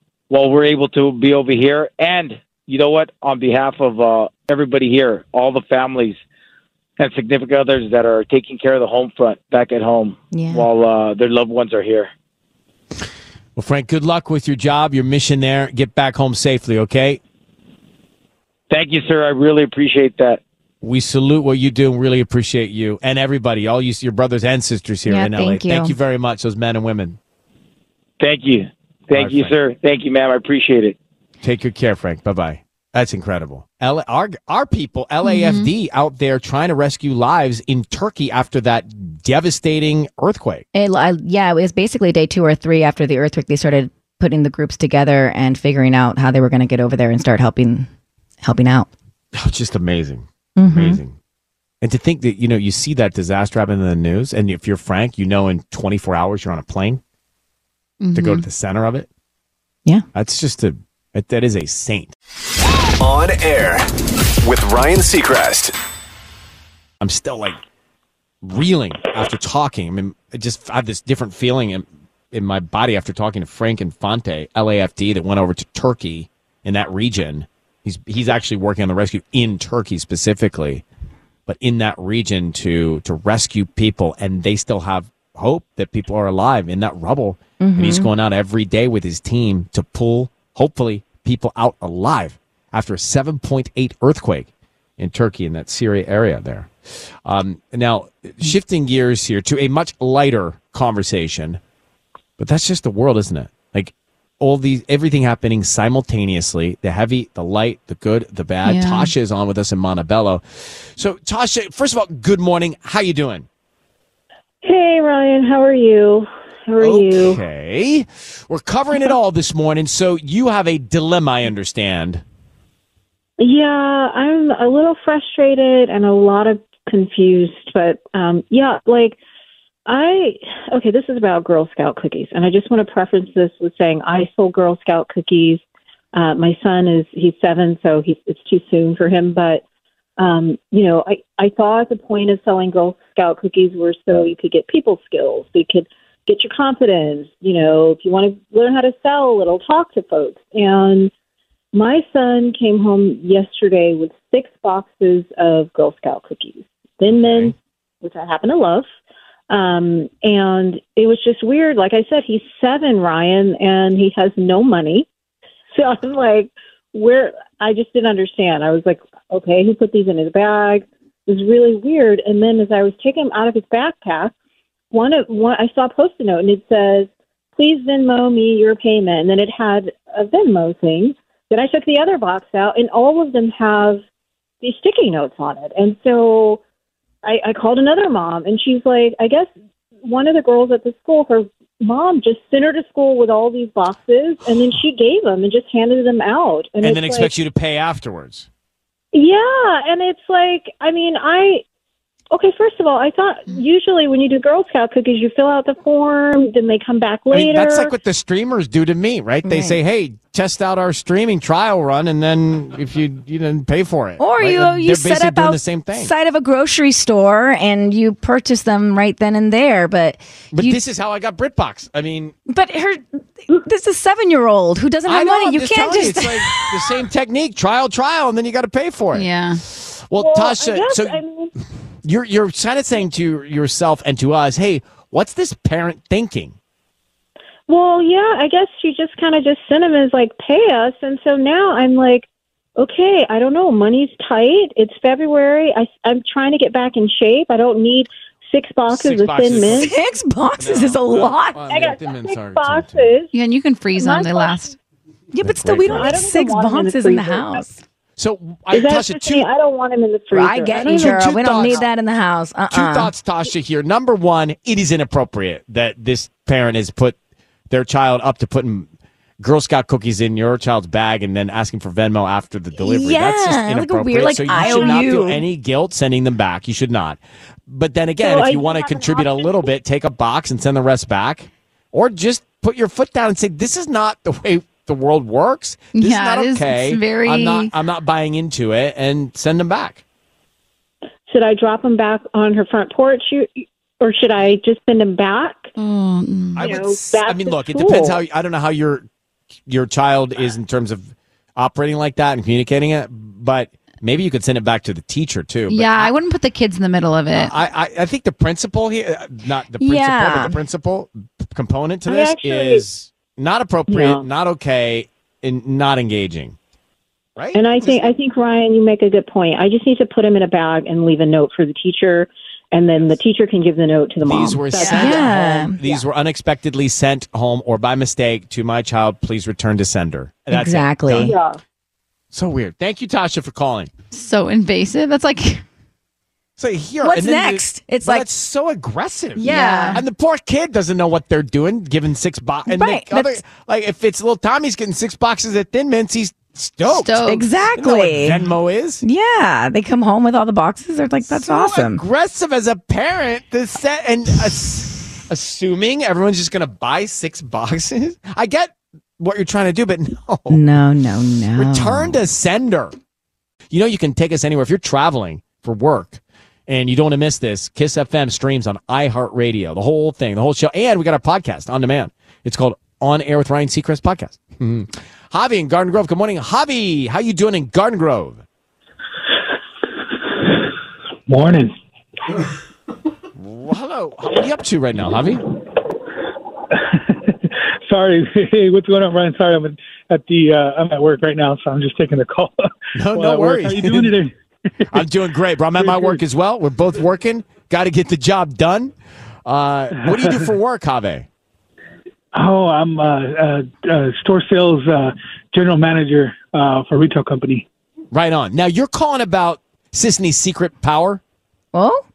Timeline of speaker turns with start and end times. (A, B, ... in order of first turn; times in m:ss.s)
0:00.3-0:06.2 A
0:07.0-0:12.1 A
0:10.3-0:10.7 B
0:13.6-0:17.2 C
0:18.7-0:20.4 A
0:20.8-0:27.2 C
0:25.1-0:25.9 B
0:28.2-0:31.0 A
0:29.1-0:29.5 C
0:31.4-0:40.6 C
0:35.2-0:35.7 D
0:40.7-0:47.9 B
0:48.4-0:48.9 B
0:49.3-0:51.2 C
0:50.6-0:51.0 B
0:51.8-0:57.0 C
0:58.0-0:58.4 D
0:58.1-0:59.1 C
1:00.1-1:02.1 C
1:03.0-1:03.9 E
1:04.4-1:05.7 E
1:07.0-1:07.6 C
1:08.4-1:20.8 C
1:21.5-1:36.7 C
1:27.6-1:28.1 B
1:37.2-1:41.6 C
1:42.4-1:53.5 C
1:48.6-1:49.1 D
1:54.6-1:57.4 F
1:56.8-2:02.2 C
2:03.4-2:09.2 F
2:09.9-2:15.6 F
2:16.1-2:19.6 F
2:20.2-2:31.1 F
2:31.7-2:38.9 F
2:37.1-2:37.5 C
2:39.5-2:45.1 F
2:45.7-2:54.3 F
2:54.9-3:04.0 F
3:04.6-3:06.6 F
3:07.2-3:09.5 F
3:10.0-3:17.3 F
3:16.8-3:18.5 C
3:19.1-3:21.6 F
3:22.3-3:27.9 F
3:27.3-3:36.1 C
3:29.4-3:29.8 B
3:34.2-3:40.8 B
3:40.5-3:42.4 C
3:42.5-3:46.9 B
3:45.1-3:51.2 C
3:49.1-3:49.6 D
3:50.2-3:51.5 F
3:52.0-3:56.6 C
3:57.7-4:09.9 F
4:08.9-4:09.9 C
4:09.6-4:11.6 B
4:10.6-4:13.1 C
4:11.6-4:13.3 F
4:13.3-4:14.8 D
4:14.0-4:14.6 F
4:15.3-4:17.8 B
4:15.4-4:16.2 C
4:15.8-4:17.7 F
4:18.2-4:19.5 C
4:18.7-4:21.8 F
4:20.3-4:23.1 B
4:20.8-4:21.9 C
4:22.7-4:27.2 C
4:27.7-4:50.0 C
4:32.8-4:35.4 B
4:34.6-4:35.0 F
4:38.2-4:39.7 F
4:45.9-4:47.7 D
4:51.3-4:55.7 F
4:55.8-4:56.7 D
4:56.6-4:59.1 C
4:56.6-4:58.2 F
4:59.7-5:06.1 C
5:05.7-5:07.5 D
5:07.3-5:16.6 C
5:09.8-5:10.6 B
5:12.1-5:12.8 F
5:13.9-5:14.3 F
5:17.4-5:18.1 C
5:17.5-5:26.0 F
5:24.2-5:31.4 C
5:24.8-5:25.8 B
5:30.5-5:31.4 B
5:31.2-5:31.6 F
5:32.3-5:33.9 C
5:34.1-5:35.6 D
5:36.6-5:47.2 C
5:37.0-5:38.3 B
5:39.4-5:40.0 B
5:39.4-5:40.0 D
5:42.7-5:43.4 B
5:46.8-5:47.5 D
5:47.2-5:48.4 B
5:47.8-5:49.0 C
5:49.0-5:52.0 B
5:51.3-6:00.6 C
6:00.5-6:02.2 B
6:01.6-6:03.0 C
6:03.7-6:18.4 C
6:21.3-6:21.7 G
6:23.4-6:25.4 C
6:26.7-6:32.6 G
6:33.0-6:34.2 C
6:33.1-6:35.0 G
6:34.9-6:38.9 C
6:35.8-6:36.2 G
6:39.4-6:41.3 C
6:40.1-6:40.5 G
6:42.3-6:47.6 G
6:48.1-6:51.2 C
6:51.7-6:52.0 B